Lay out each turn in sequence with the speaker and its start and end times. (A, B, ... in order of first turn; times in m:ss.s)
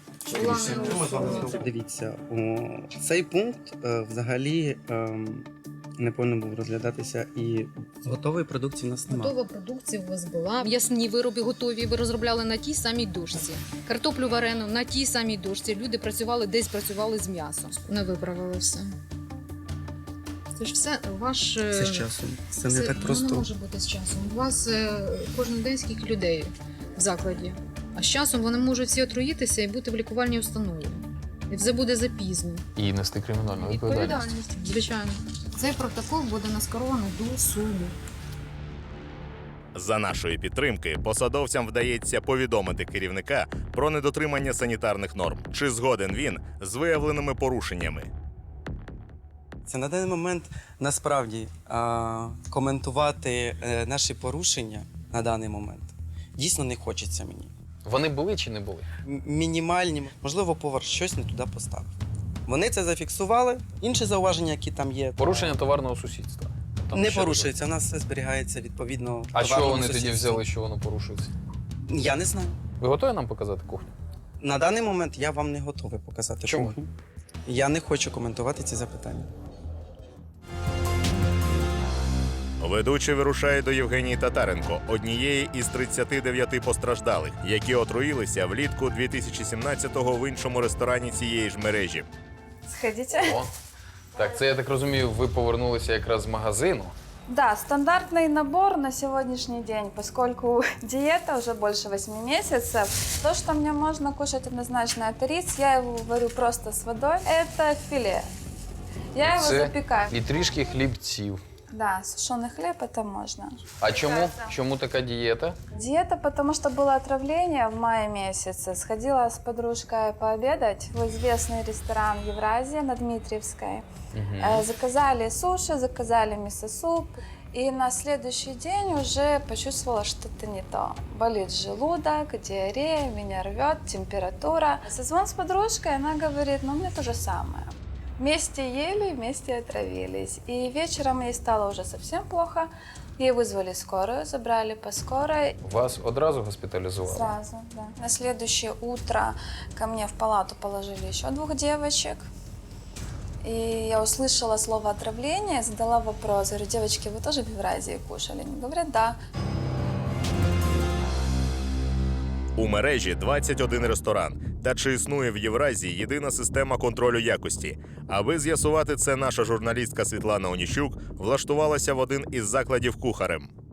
0:00.3-0:09.3 A
0:00.3-0:01.6 B
0:09.1-0:18.9 B
0:20.6-0:22.1 B
0:21.7-0:23.4 A
0:22.6-0:32.6 B
0:32.8-0:34.3 C
0:33.5-0:37.9 B
0:39.7-0:48.1 D
0:49.6-0:57.5 A
0:57.8-0:58.9 C
0:59.0-1:01.9 A
1:02.5-1:05.5 A
1:05.2-1:07.5 C
1:06.9-1:10.4 A
1:09.3-1:11.3 C
1:11.9-1:12.6 A
1:12.8-1:13.9 C
1:14.4-1:16.9 A
1:16.4-1:16.8 C
1:17.5-1:19.3 A
1:22.6-1:32.1 D
1:32.6-1:33.4 E
1:33.2-1:33.5 C
1:34.2-1:36.9 C
1:37.3-1:48.3 E
1:49.1-1:50.1 E
1:49.2-1:51.4 C
1:51.7-1:53.6 E
1:53.8-1:55.6 C
1:55.7-2:03.8 E
2:04.1-2:04.6 C
2:04.4-2:25.6 E
2:25.6-2:27.3 C
2:27.0-2:32.3 E
2:33.4-2:39.2 E
2:42.6-2:53.5 D